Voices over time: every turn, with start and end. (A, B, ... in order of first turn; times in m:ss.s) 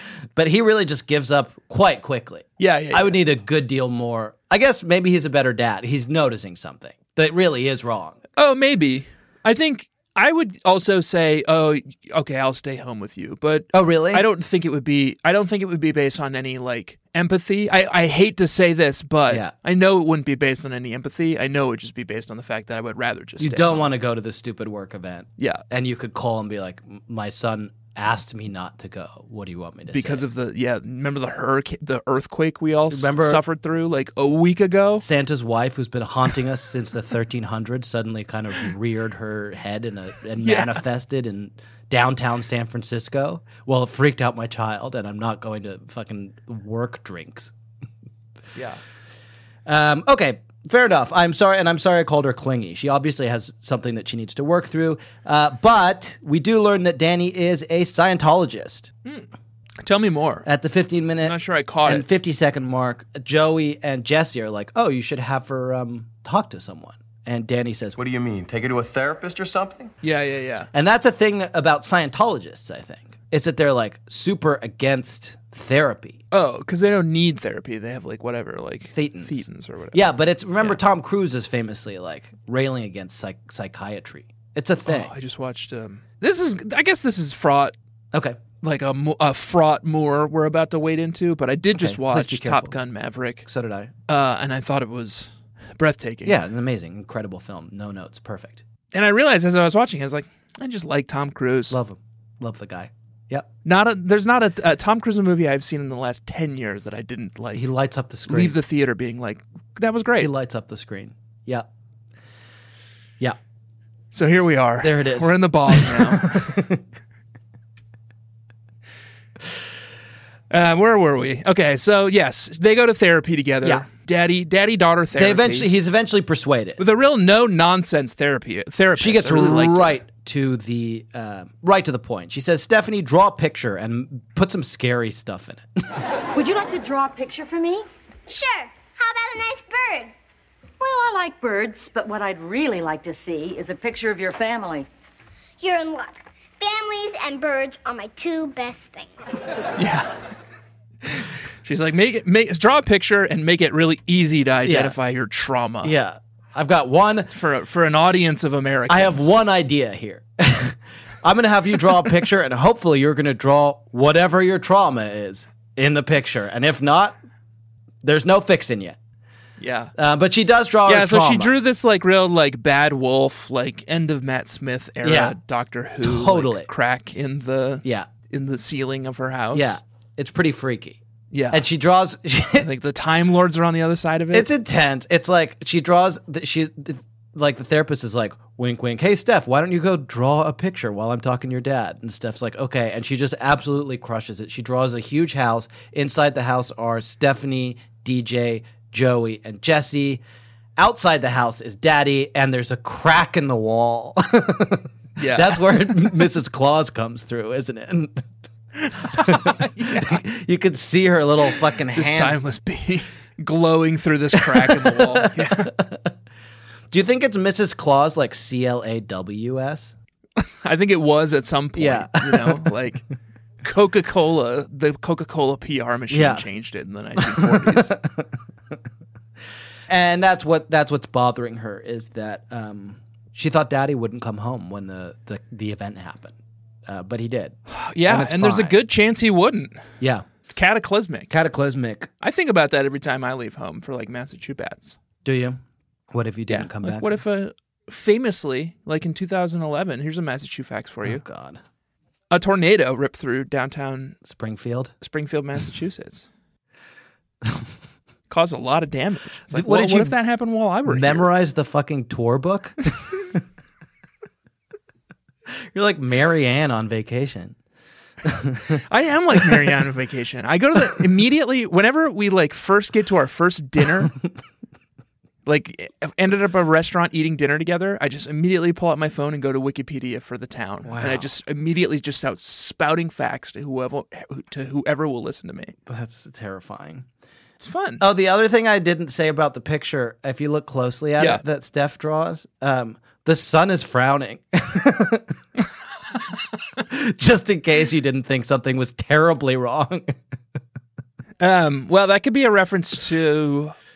0:00.4-0:08.2 A
0:02.6-0:03.2 B
0:08.4-0:23.9 B
0:13.7-0:14.3 A
0:23.4-0:30.2 A
0:25.4-0:25.6 B
0:29.9-0:35.0 B
0:32.9-0:33.4 A
0:35.0-0:47.5 A
0:40.4-0:40.8 B
0:48.6-0:48.8 B
0:49.7-0:58.9 A
0:59.8-1:00.5 B
1:00.5-1:08.0 A
1:01.2-1:02.0 B
1:08.0-1:09.9 C
1:10.0-1:10.7 B
1:10.7-1:16.2 A
1:16.3-1:20.8 B
1:18.9-1:25.1 A
1:24.9-1:27.8 B
1:28.1-1:28.4 A
1:28.6-1:33.5 B
1:31.8-1:32.8 A
1:33.5-1:33.9 A
1:34.1-1:36.4 B
1:36.2-1:38.6 A
1:38.9-1:41.8 B
1:41.7-1:43.5 A
1:43.6-1:47.7 B
1:47.6-1:48.6 A
1:48.3-1:50.3 B
1:50.2-1:51.6 A
1:54.1-1:56.6 B
1:54.8-1:56.8 A
2:00.5-2:05.7 B
2:05.2-2:06.8 A
2:06.8-2:10.0 B
2:09.0-2:15.9 A
2:16.3-2:17.9 D
2:18.3-2:20.1 E
2:20.8-2:24.9 D
2:25.6-2:29.2 E
2:29.8-2:30.3 B
2:31.0-2:35.9 B
2:34.6-2:35.0 A
2:35.8-2:37.3 A
2:37.3-2:39.3 B
2:38.9-2:47.2 A
2:48.0-2:49.0 A
2:49.6-2:49.9 B
2:50.0-2:51.5 A
2:50.9-2:59.8 B
2:55.0-2:55.4 A
2:56.0-2:56.7 A
2:57.8-2:58.1 A
2:59.5-3:01.0 A
3:01.3-3:01.6 B
3:01.5-3:02.7 A
3:02.6-3:04.5 B
3:04.3-3:20.2 A
3:20.8-3:28.3 A
3:25.2-3:26.1 B
3:29.0-3:32.4 A
3:29.0-3:30.2 B
3:31.5-3:35.7 B
3:34.3-3:36.1 A
3:36.9-3:40.0 A
3:40.4-3:43.1 B
3:41.8-3:42.7 A
3:43.6-3:47.9 B
3:46.1-3:46.4 A
3:47.2-3:48.3 A
3:49.9-3:56.4 A
3:56.9-3:58.8 A
3:57.7-3:59.9 B
4:00.0-4:00.2 A
4:00.5-4:01.3 B
4:01.3-4:02.1 A
4:02.2-4:05.0 B
4:05.2-4:05.6 A
4:06.1-4:07.1 A
4:06.5-4:11.2 B
4:11.0-4:11.6 A
4:12.3-4:14.2 B
4:14.2-4:14.9 A
4:15.0-4:16.3 B
4:18.3-4:21.3 B
4:19.5-4:20.2 A
4:20.9-4:23.0 A
4:25.7-4:27.6 A
4:28.2-4:28.8 A
4:28.8-4:34.2 B
4:35.5-4:45.8 B
4:40.9-4:41.3 A
4:45.9-4:47.0 A
4:47.6-4:48.0 B
4:48.0-4:55.4 A
4:56.8-5:00.2 A
5:01.4-5:03.8 B